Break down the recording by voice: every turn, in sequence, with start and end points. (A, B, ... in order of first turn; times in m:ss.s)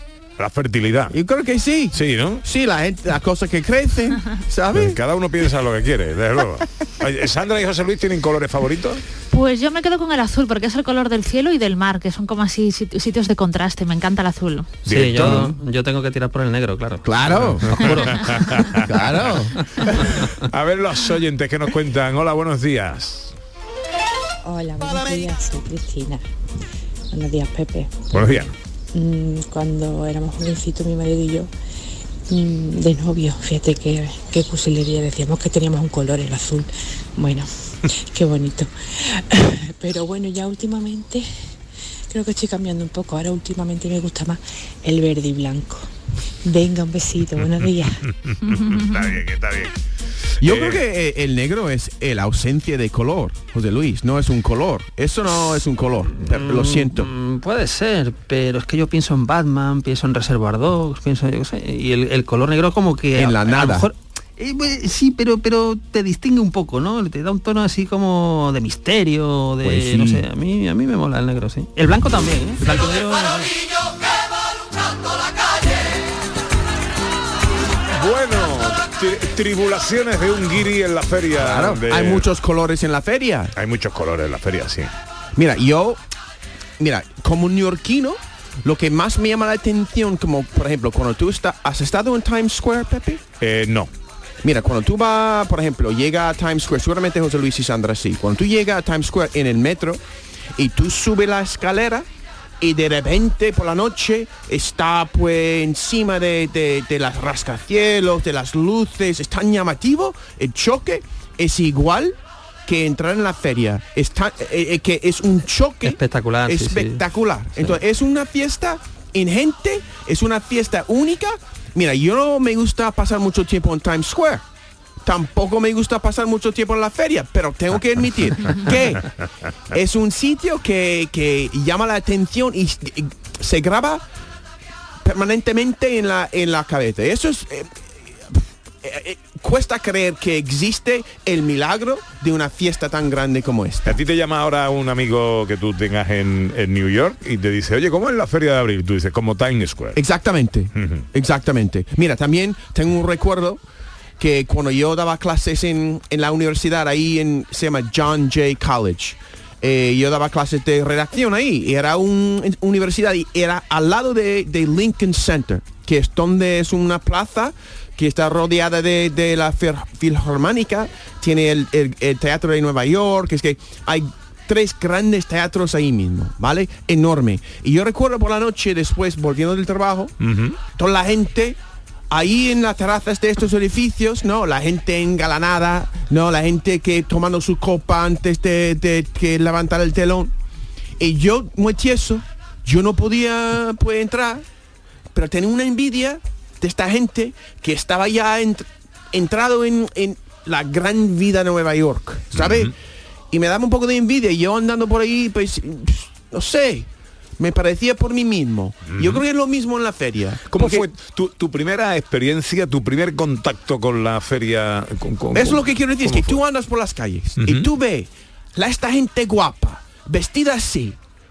0:00.4-0:01.2 A
0:01.1-0:05.0 B
0:01.9-0:02.4 A
0:04.7-0:09.0 A
0:09.3-0:14.8 C
0:14.8-0:18.9 D
0:14.9-0:15.5 A
0:17.0-0:17.8 B
0:17.7-0:19.0 A
0:18.8-0:19.5 B
0:19.8-0:20.2 D
0:20.1-0:23.3 A
0:24.4-0:26.2 E
0:27.1-0:28.3 E
0:28.1-0:28.5 A
0:28.9-0:31.5 E
0:32.3-0:37.5 E
0:38.1-0:41.3 E
0:42.1-0:45.9 E
0:46.4-0:48.0 E
0:47.6-0:49.7 A
0:48.4-0:49.2 C
0:50.4-0:57.1 B
0:50.4-0:50.8 A
0:56.2-1:13.6 D
1:03.1-1:03.9 B
1:09.6-1:10.2 B
1:17.9-1:22.2 A
1:21.4-1:23.5 B
1:23.6-1:24.9 A
1:25.4-1:26.0 B
1:26.8-1:33.2 B
1:33.4-1:33.9 A
1:34.4-1:40.0 B
1:40.6-1:42.1 B
1:42.6-2:04.4 B
1:55.8-1:57.0 D
2:05.0-2:09.1 B
2:09.7-2:14.0 B
2:15.0-2:24.0 B
2:23.8-2:30.0 A
2:30.0-2:33.6 B
2:30.8-2:31.0 A
2:34.2-3:00.1 B
3:00.2-3:00.6 A
3:00.7-3:01.6 B
3:02.1-3:10.3 B
3:11.0-3:14.4 B
3:15.1-3:22.7 B
3:22.3-3:22.7 A
3:23.3-3:30.8 B
3:28.9-3:29.2 A
3:30.5-3:36.4 A
3:35.3-3:41.0 B
3:37.4-3:37.7 A